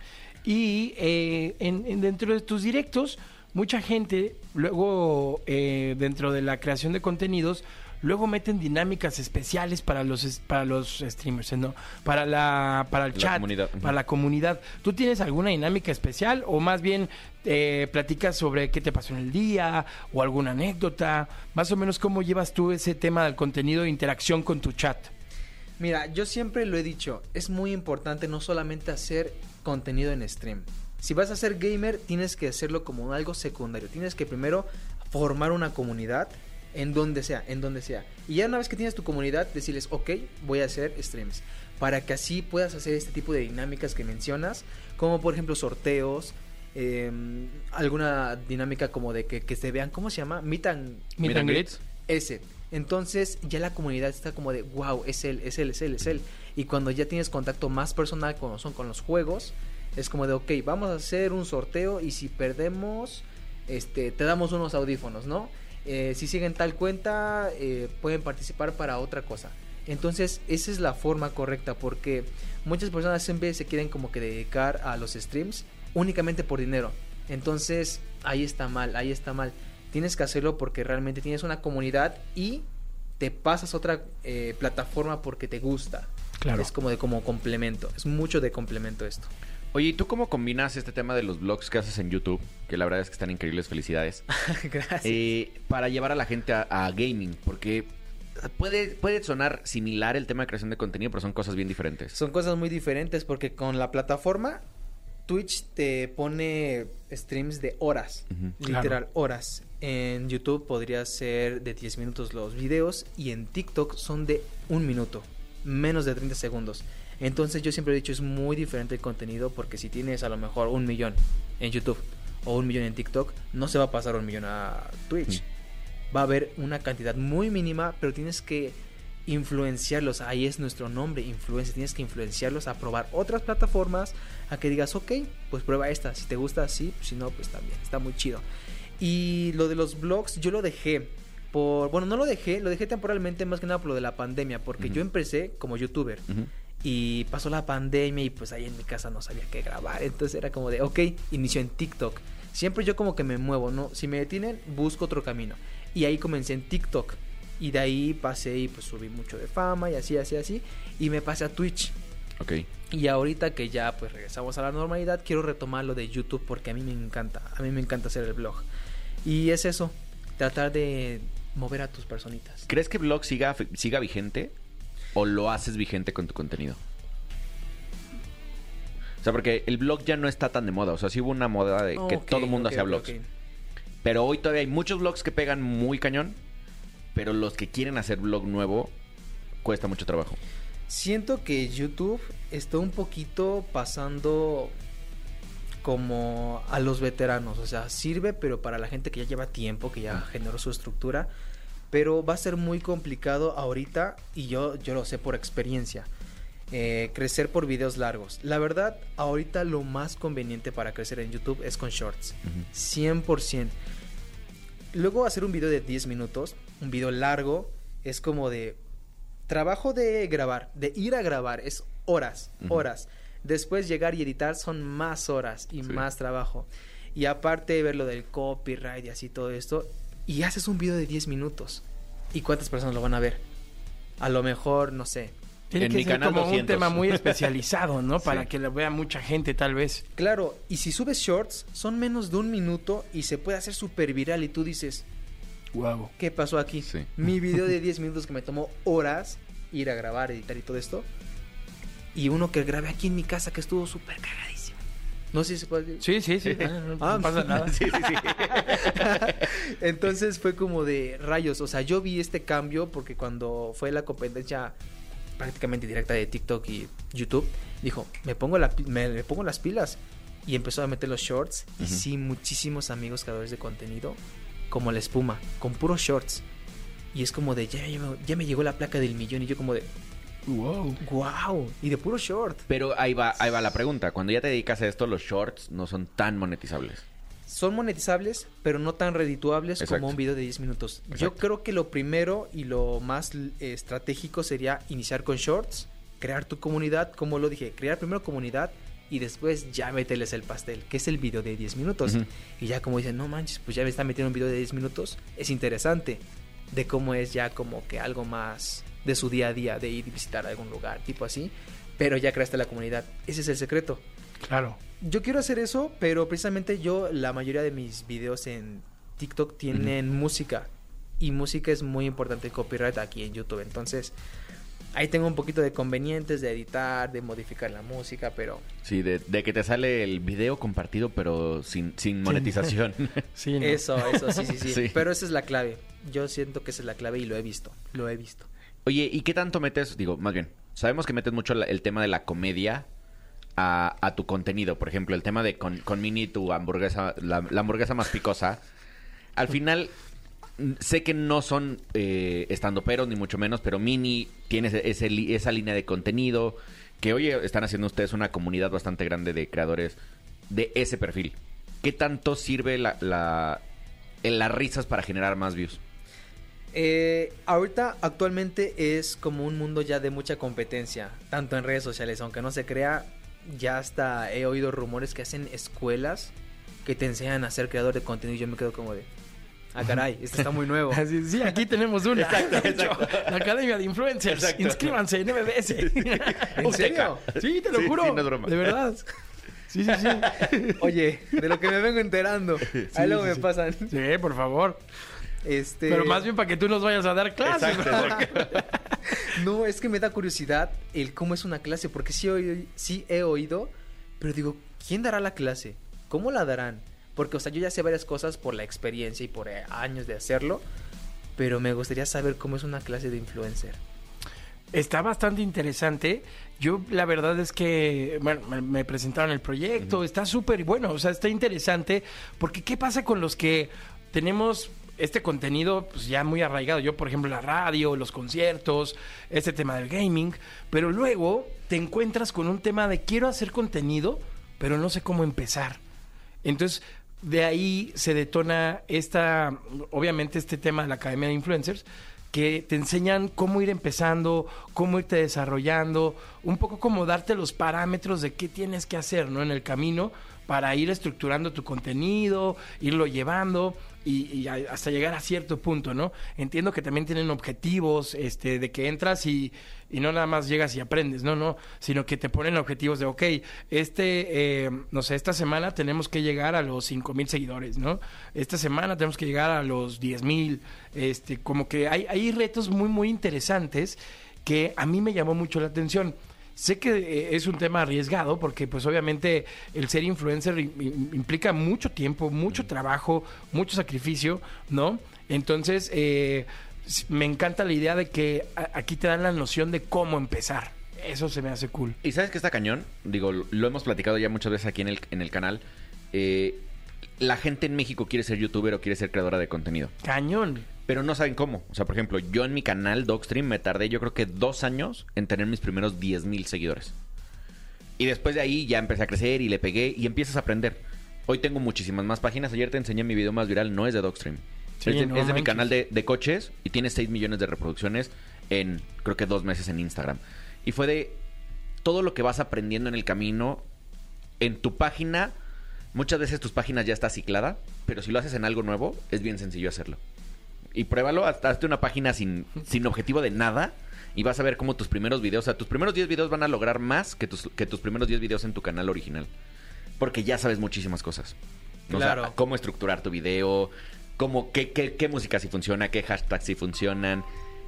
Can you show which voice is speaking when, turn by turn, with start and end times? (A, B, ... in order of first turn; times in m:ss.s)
0:00.4-0:25.1 A
0:13.1-0:14.0 B
0:25.8-0:51.2 C
0:51.2-0:51.7 A
0:51.2-0:51.8 B
0:52.1-1:22.6 C
1:23.2-1:29.3 C
1:26.4-1:26.7 A
1:29.7-1:34.2 B
1:34.3-1:35.3 C
1:35.0-1:42.2 B
1:42.1-1:44.6 C
1:45.2-2:05.4 C
1:48.6-1:48.9 A
2:06.1-2:18.4 C
2:19.0-2:26.2 C
2:26.8-2:41.9 C
2:42.4-2:42.7 B
2:42.9-2:48.6 C
2:49.2-2:52.7 C
2:52.7-2:54.5 B
2:55.1-2:56.8 B
2:59.2-3:03.1 B
3:01.9-3:03.2 C
3:04.0-3:06.4 B
3:07.1-3:08.9 B
3:09.6-3:10.4 B
3:10.9-3:14.7 C
3:15.8-3:21.3 C
3:21.9-3:26.1 C
3:26.7-3:33.7 C
3:34.9-3:38.8 C
3:39.5-3:53.4 C
3:54.2-3:55.3 C
3:55.7-4:00.0 A
3:55.8-3:57.5 B
3:58.2-3:58.5 B
4:00.2-4:05.0 C
4:05.7-4:06.1 A
4:06.2-4:11.0 C
4:12.1-4:14.8 C
4:15.3-4:16.0 C
4:16.0-4:17.8 A
4:16.4-4:16.7 B
4:17.0-4:24.8 C
4:17.5-4:19.5 B
4:25.4-4:34.2 C
4:34.7-4:36.4 C
4:37.1-4:39.9 C
4:40.5-4:41.0 A
4:41.0-4:42.6 C
4:42.7-4:47.0 B
4:47.4-5:14.0 C
4:49.8-4:50.2 B
4:51.1-4:51.4 B
5:14.4-5:14.8 A
5:15.0-5:20.7 C
5:21.2-5:24.1 C
5:24.9-5:28.6 C
5:28.8-5:33.2 B
5:32.2-5:32.7 A
5:33.4-5:34.4 A
5:33.6-5:38.5 C
5:34.6-5:35.0 B
5:38.8-5:42.9 B
5:43.6-5:48.6 B
5:49.3-5:49.9 B
5:50.6-6:00.0 B
6:00.5-6:03.6 B
6:04.2-6:05.8 B
6:06.7-6:16.3 C
6:16.8-6:19.1 C
6:19.7-6:21.0 C
6:20.9-6:29.0 A
6:22.1-6:23.5 B
6:24.3-6:25.0 B
6:25.6-6:28.7 B
6:26.6-6:27.2 C
6:29.7-6:30.8 A
6:30.8-6:33.9 C
6:33.0-6:34.8 A
6:35.4-6:36.3 C
6:35.9-6:39.1 A
6:37.4-6:38.5 B
6:37.9-6:38.1 C
6:39.2-6:50.6 C
6:51.4-6:53.8 C
6:54.7-7:15.8 A
7:16.4-8:12.0 A
8:12.0-8:16.6 B
8:17.2-8:19.9 B
8:20.0-8:20.7 A
8:20.9-8:26.9 B
8:28.0-8:41.2 B
8:34.8-8:35.7 A
8:41.8-8:43.6 B
8:44.4-8:45.3 B
8:45.9-8:50.0 B
8:50.7-8:59.3 B
9:00.0-9:01.4 B
9:01.9-9:07.2 B
9:01.9-9:02.3 C